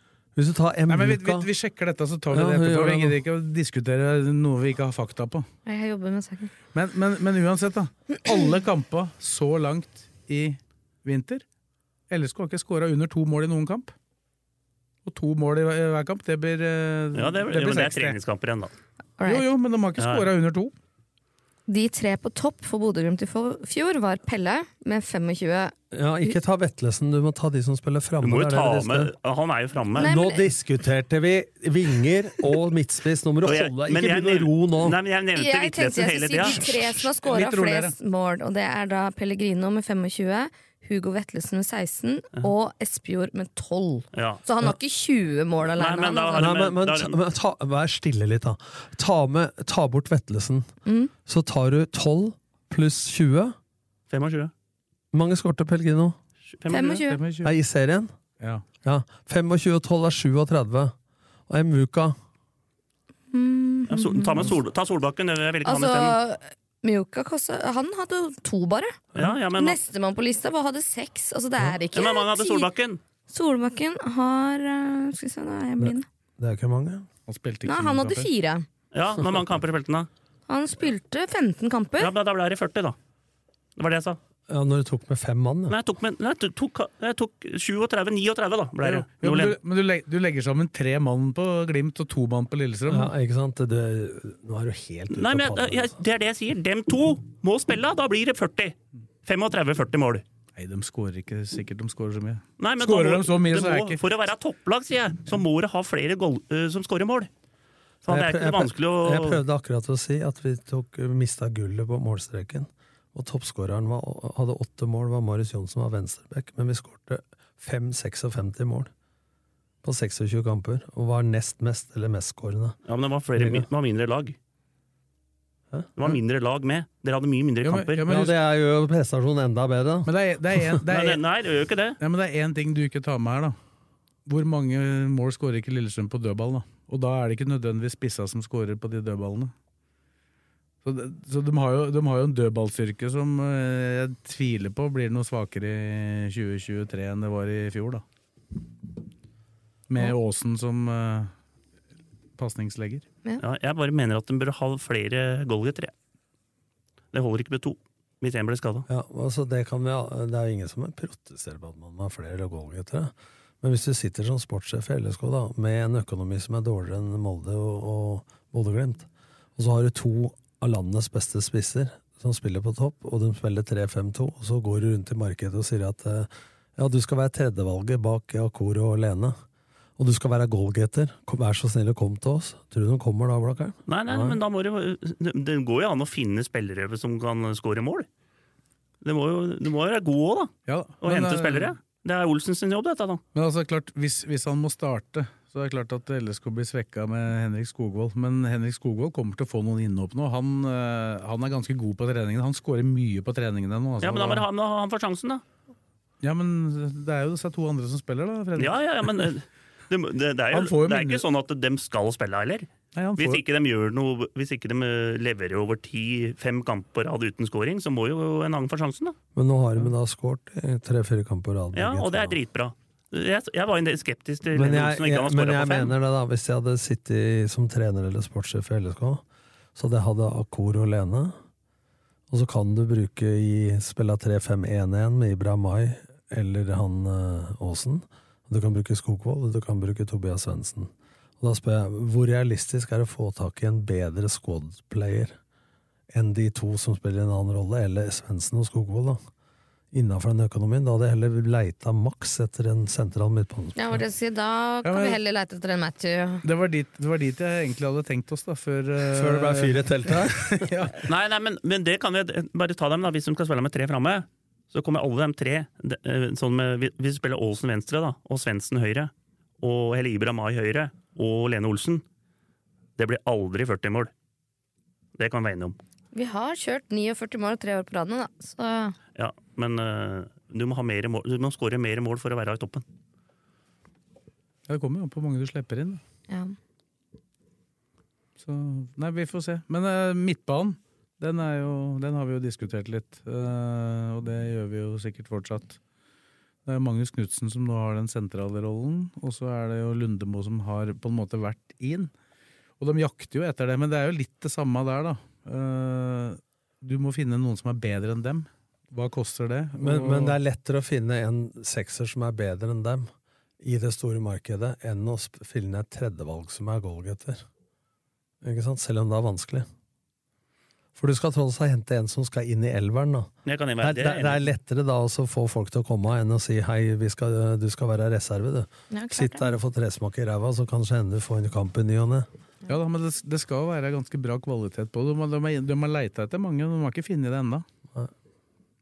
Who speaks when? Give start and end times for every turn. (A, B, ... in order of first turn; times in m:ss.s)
0:00.4-0:01.5 A
0:00.9-0:05.5 B
0:02.3-0:03.2 A
0:05.6-0:06.5 C
0:06.7-0:11.4 B
0:12.1-0:13.9 B
0:15.0-0:18.2 B
0:17.1-0:18.7 D
0:19.2-0:19.5 C
0:19.2-0:20.7 B
0:20.0-0:20.3 D
0:21.7-0:25.7 C
0:25.9-0:29.1 A
0:28.2-0:30.1 D
0:30.0-0:30.4 C
0:30.0-0:35.0 A
0:33.4-0:36.6 D
0:35.3-0:46.5 C
0:37.2-0:37.9 B
0:44.1-0:44.4 D
0:45.8-0:47.2 D
0:46.4-0:50.7 A
0:50.8-0:51.1 C
0:51.2-0:53.6 A
0:54.1-0:54.5 D
0:55.1-0:56.2 A
0:56.6-0:57.0 D
0:56.7-0:57.2 C
0:56.7-0:57.5 B
0:57.4-0:58.1 A
0:58.8-1:00.9 A
1:01.5-1:02.2 A
1:03.3-1:04.4 C
1:03.9-1:06.2 D
1:05.6-1:09.0 C
1:09.2-1:09.8 D
1:09.6-1:12.7 C
1:11.9-1:13.0 D
1:13.3-1:16.0 C
1:15.8-1:17.1 A
1:17.3-1:18.3 B
1:17.6-1:18.6 C
1:18.9-1:20.1 D
1:20.5-1:22.1 C
1:22.0-1:23.0 D
1:23.8-1:24.2 D
1:24.5-1:25.8 A
1:25.7-1:29.6 D
1:28.8-1:33.1 B
1:32.9-1:36.0 A
1:35.1-1:40.2 D
1:40.6-1:44.0 B
1:42.6-1:47.3 D
1:48.0-1:49.4 D
1:48.1-1:58.9 A
1:59.8-2:02.8 A
2:02.9-2:04.4 D
2:03.4-2:03.7 A
2:06.0-2:08.1 D
2:07.6-2:08.3 B
2:08.0-2:10.8 A
2:10.0-2:11.2 B
2:10.9-2:12.0 D
2:12.0-2:13.6 B
2:14.2-2:19.5 B
2:20.8-2:28.0 B
2:29.9-2:31.3 B
2:32.4-2:33.0 B
2:33.4-2:35.9 D
2:37.1-2:38.8 D
2:38.9-2:59.4 A
3:00.0-3:04.4 A
3:03.9-3:08.1 D
3:09.0-3:13.2 D
3:10.7-3:11.7 B
3:13.3-3:24.4 B
3:24.0-3:25.4 D
3:26.2-3:29.3 B
3:28.6-3:39.2 D
3:30.5-3:31.2 B
3:32.9-3:33.4 B
3:39.3-3:42.4 A
3:41.7-3:45.9 D
3:44.5-3:49.2 A
3:49.8-3:51.4 A
3:52.3-4:05.4 A
4:06.1-4:09.2 A
4:09.9-4:14.0 A
4:13.8-4:16.4 C
4:14.8-4:15.2 B
4:16.4-4:21.0 B
4:19.0-4:20.9 A
4:21.0-4:32.0 D
4:33.0-4:34.1 D
4:35.2-4:35.8 D
4:36.1-4:38.9 C
4:39.1-4:42.8 D
4:44.7-4:46.0 B
4:46.3-4:46.5 C
4:48.4-4:55.8 B
4:56.6-5:02.1 B
5:02.8-5:10.4 B
5:09.8-5:13.1 A
5:13.6-5:17.4 A
5:18.4-5:19.7 A
5:21.0-5:32.3 A
5:23.4-5:24.4 D
5:28.9-5:29.5 C
5:32.7-5:37.6 B